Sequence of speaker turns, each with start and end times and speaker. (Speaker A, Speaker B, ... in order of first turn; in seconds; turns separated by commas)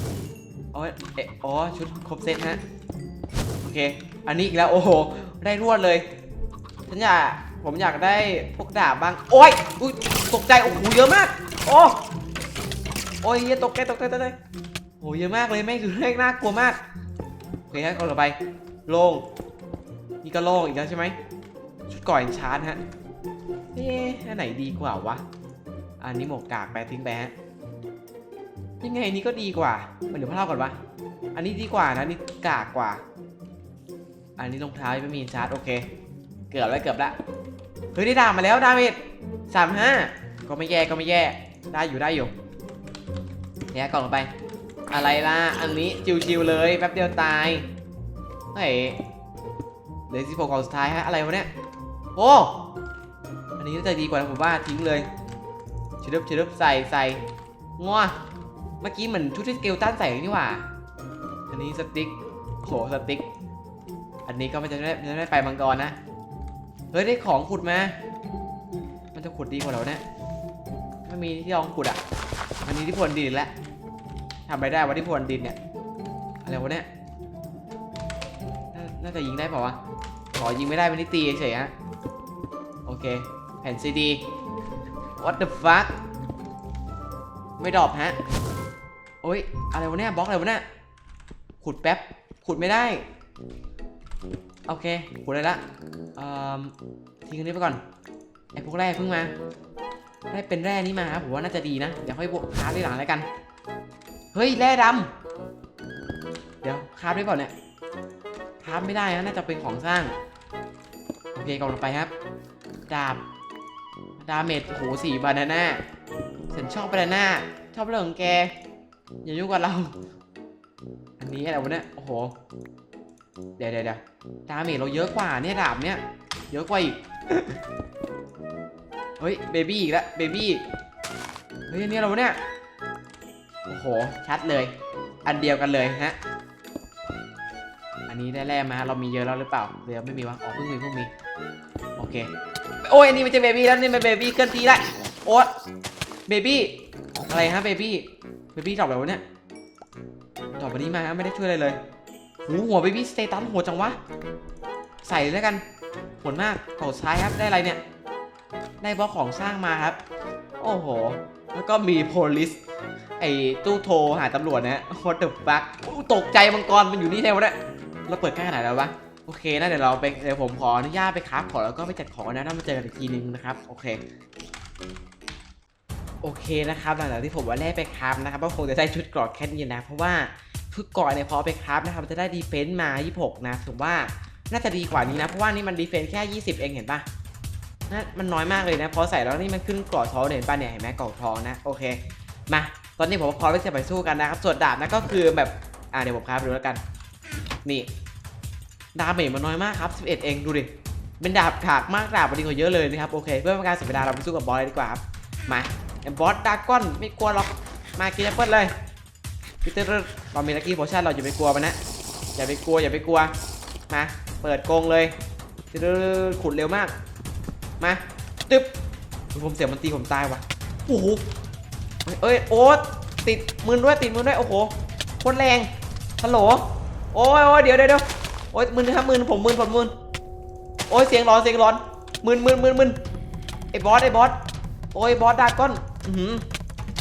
Speaker A: 0.7-2.6, Speaker A: 3.6-6.0, Speaker A: 6.9-12.0, Speaker A: 13.2-14.3, Speaker A: 15.0-16.8, Speaker A: 17.7-18.4, Speaker A: 18.9-19.2, Speaker A: 20.2-21.1, Speaker A: 21.9-22.8, Speaker A: 23.7-25.2, Speaker A: 26.0-27.3, Speaker A: 28.8-30.8, Speaker A: 31.3-33.0, Speaker A: 34.4-35.8, Speaker A: 36.5-37.1, Speaker A: 37.9-42.3, Speaker A: 43.7-44.3, Speaker A: 44.9-47.7, Speaker A: 48.5-49.0, Speaker A: 50.1-51.5, Speaker A: 52.1-52.6, Speaker A: 53.6-55.1, Speaker A: 56.0-57.2, Speaker A: 57.8-58.1, Speaker A: 58.8-60.7, Speaker A: 61.5-63.2, Speaker A: 64.2-65.9, Speaker A: 66.9-67.9, Speaker A: 69.1-70.0, Speaker A: 71.0-72.0, Speaker A: 72.6-73.5, Speaker A: 74.5-75.6, Speaker A: 76.4-76.8, Speaker A: 78.7-79.8, Speaker A: 80.3-81.7, Speaker A: 82.8-84.2, Speaker A: 85.2-85.9, Speaker A: 87.6-88.2, Speaker A: 89.2-90.6, Speaker A: 91.6-93.0, Speaker A: 94.7-95.6, Speaker A: 96.2-96.7, Speaker A: 97.2-97.8, Speaker A: 98.5-99.3, Speaker A: 100.3-103.2, Speaker A: 104.3-105.1, Speaker A: 106.6-107.5, Speaker A: 108.6-110.1, Speaker A: 111.3-112.1, Speaker A: 112.9-113.2, Speaker A: 114.2-115.8, Speaker A: 116.5-118.5, Speaker A: 119.2-119.9, Speaker A: 121.2-122.3, Speaker A: 123.6-127.6, Speaker A: 129.2-130.6, Speaker A: 131.7-132.4, Speaker A: 133.7-134.7, Speaker A: 135.2-136.2, Speaker A: 138.1-141.1, Speaker A: 142.0-142.3, Speaker A: 142.8-145.5, Speaker A: 146.3-149.2, Speaker A: 150.6-151.8, Speaker A: 152.4-154.0, Speaker A: 155.0-155.6, Speaker A: 156.2-157.8, Speaker A: 158.8-160.0, Speaker A: 160.6-162.6, Speaker A: 163.2-167.6, Speaker A: 168.1-174.0, Speaker A: 176.2-187.0, Speaker A: 187.9-196.8, Speaker A: 198.9-200.7, Speaker A: 201.2-208.7, Speaker A: 209.6-211.8, Speaker A: 212.3-213.3, Speaker A: 213.9-215.1, Speaker A: 215.7-216.9, Speaker A: 217.8-218.7, Speaker A: 219.3-221.2, Speaker A: 222.1-225.7, Speaker A: 226.2-226.6, Speaker A: 227.1-229.9, Speaker A: 230.9-233.0, Speaker A: 233.7-234.3, Speaker A: 234.9-236.4